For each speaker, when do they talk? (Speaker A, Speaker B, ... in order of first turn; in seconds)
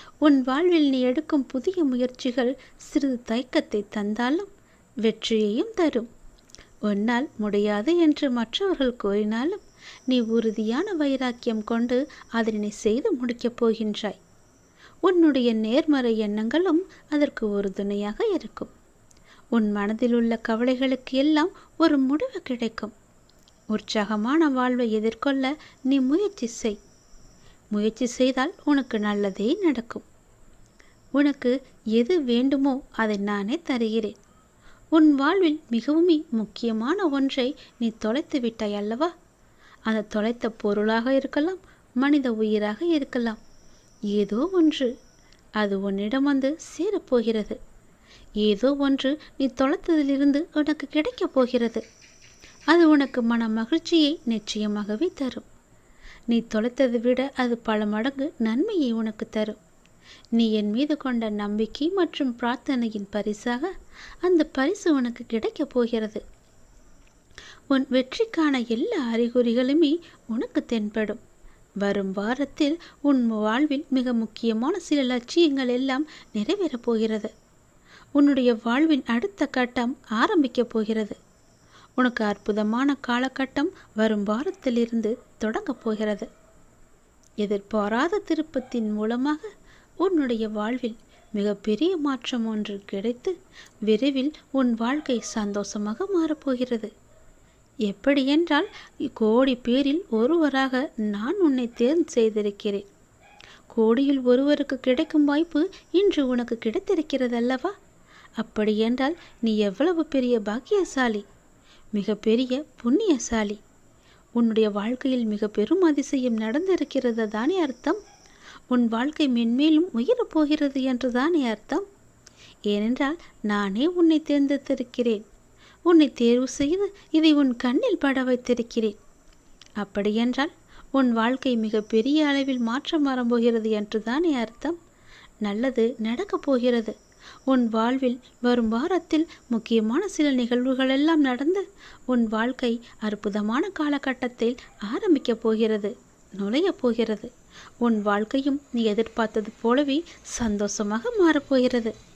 Speaker A: 0.2-4.5, 5.0-6.1, 6.9-14.2, 15.1-18.7, 19.5-22.9, 23.7-26.8, 27.7-30.0, 31.1-34.1, 34.9-39.1, 39.9-43.4, 44.1-44.9, 45.6-47.6, 48.4-51.8, 52.7-55.5, 56.3-59.6, 60.4-63.7, 64.2-66.2, 67.7-71.2, 71.8-77.3, 78.2-81.2, 82.0-86.3, 87.4-89.5, 90.0-93.3, 93.8-96.9, 97.9-102.8, 103.7-107.7, 108.4-111.2, 111.9-113.6, 114.4-118.0, 118.7-121.8, 122.7-125.2, 125.9-128.9, 129.8-134.8, 135.4-136.9, 137.5-147.3, 147.8-151.9